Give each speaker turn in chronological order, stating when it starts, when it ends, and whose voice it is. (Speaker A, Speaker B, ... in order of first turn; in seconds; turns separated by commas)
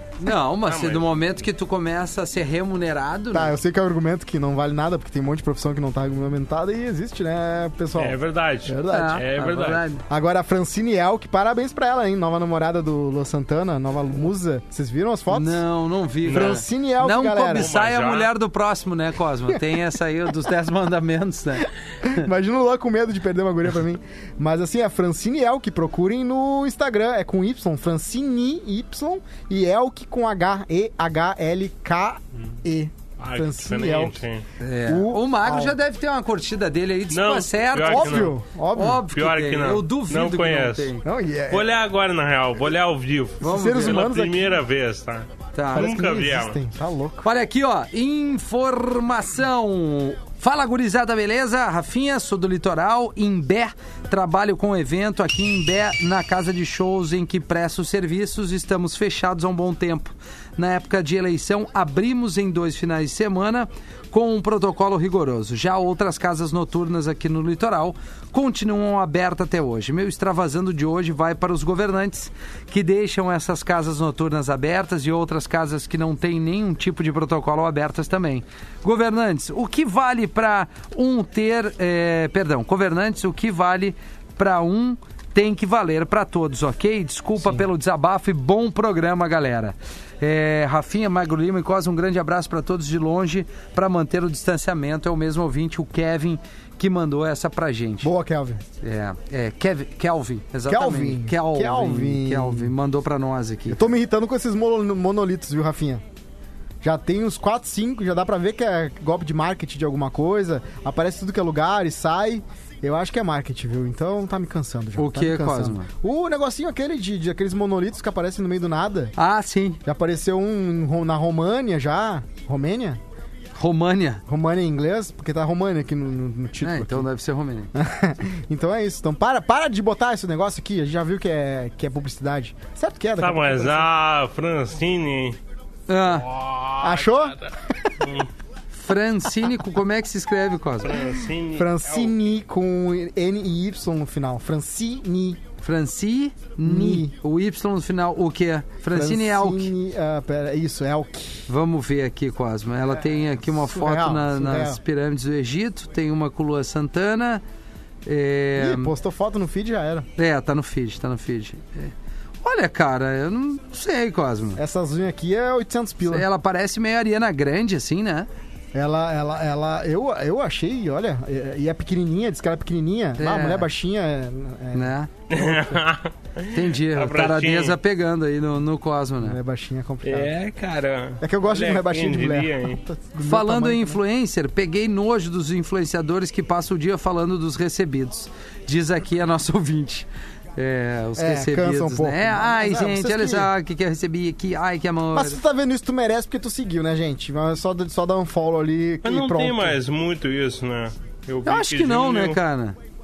Speaker A: 0.2-3.5, Speaker B: 0.6-1.0, Speaker C: 3.3-9.2, Speaker B: 8.0-9.8, Speaker A: 8.9-10.0, Speaker C: 10.1-15.6, Speaker A: 15.3-22.2, Speaker C: 16.2-17.7, Speaker B: 16.3-16.6, Speaker B: 17.6-18.3, Speaker C: 22.0-34.2, Speaker B: 33.2-34.4, Speaker A: 34.6-41.0, Speaker C: 34.9-35.8, Speaker B: 37.1-38.4, Speaker C: 37.8-39.0, Speaker B: 39.1-40.9, Speaker C: 41.0-41.7, Speaker B: 41.5-46.6, Speaker C: 43.4-44.6, Speaker A: 43.4-44.0, Speaker A: 45.5-45.9, Speaker C: 45.7-47.2, Speaker A: 47.2-98.1, Speaker C: 98.0-98.6, Speaker A: 98.8-103.9, Speaker C: 100.7-102.7, Speaker C: 103.7-106.0, Speaker C: 106.8-119.1, Speaker A: 115.0-115.9, Speaker A: 119.2-119.8, Speaker C: 119.8-123.0, Speaker A: 123.6-124.2, Speaker C: 124.3-127.1, Speaker A: 126.6-127.7, Speaker C: 127.7-133.9, Speaker B: 133.2-135.4, Speaker A: 135.9-136.3, Speaker B: 136.3-138.3, Speaker C: 136.8-137.9, Speaker A: 138.7-140.9, Speaker B: 140.8-142.2, Speaker C: 141.5-145.4, Speaker A: 145.6-149.7, Speaker C: 146.6-147.1, Speaker C: 148.9-151.5, Speaker A: 151.5-157.4, Speaker C: 153.4-154.8, Speaker A: 158.0-158.9, Speaker C: 158.6-160.1, Speaker A: 160.2-161.9, Speaker A: 162.4-164.6, Speaker C: 164.6-166.3, Speaker A: 166.1-168.3, Speaker C: 168.7-175.7, Speaker A: 173.2-173.7, Speaker A: 174.7-175.1, Speaker B: 175.3-177.8, Speaker A: 176.5-179.4, Speaker C: 179.2-180.3, Speaker B: 180.0-182.8, Speaker C: 181.2-184.0, Speaker A: 183.2-195.4, Speaker C: 191.2-193.5, Speaker C: 195.1-199.8, Speaker B: 199.0-202.4, Speaker A: 201.4-202.8